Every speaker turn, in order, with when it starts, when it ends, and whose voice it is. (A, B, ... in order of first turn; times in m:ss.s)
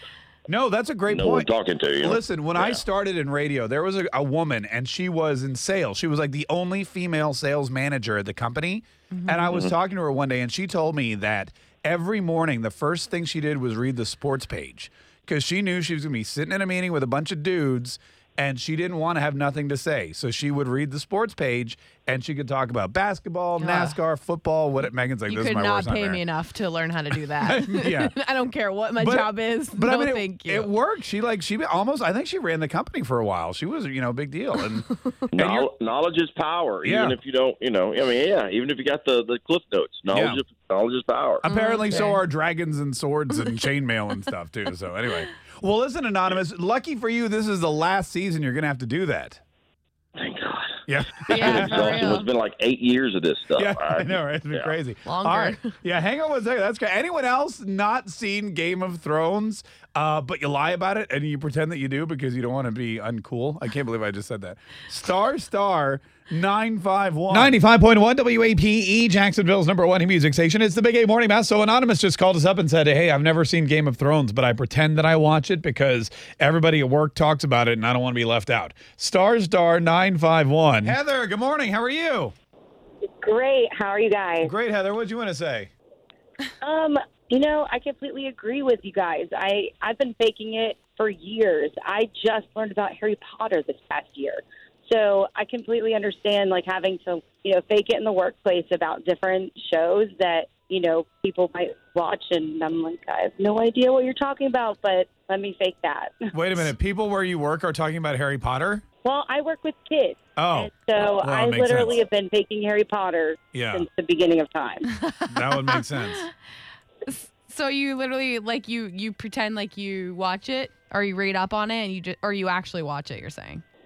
0:00.5-0:26.2 A
0:01.1-0:02.8 B
0:09.1-0:09.5 C
0:23.6-0:24.0 C
0:25.3-0:30.7 C
0:27.3-0:28.1 A
0:29.0-0:35.7 A
0:35.3-0:41.4 B
0:36.8-0:37.2 A
0:40.1-0:40.4 A
0:41.4-0:49.4 A
0:41.4-0:42.2 C
0:50.2-0:54.8 B
0:50.9-0:52.1 A
0:51.3-0:52.2 C
0:53.6-1:22.3 A
0:55.0-0:55.7 C
1:23.0-1:24.5 D
1:24.4-1:25.7 A
1:26.6-1:46.7 D
1:46.3-1:48.8 A
1:49.0-1:54.9 D
1:50.4-1:52.0 A
1:53.5-1:53.9 A
1:55.2-1:56.2 C
1:55.3-1:56.3 A
1:57.0-2:03.6 C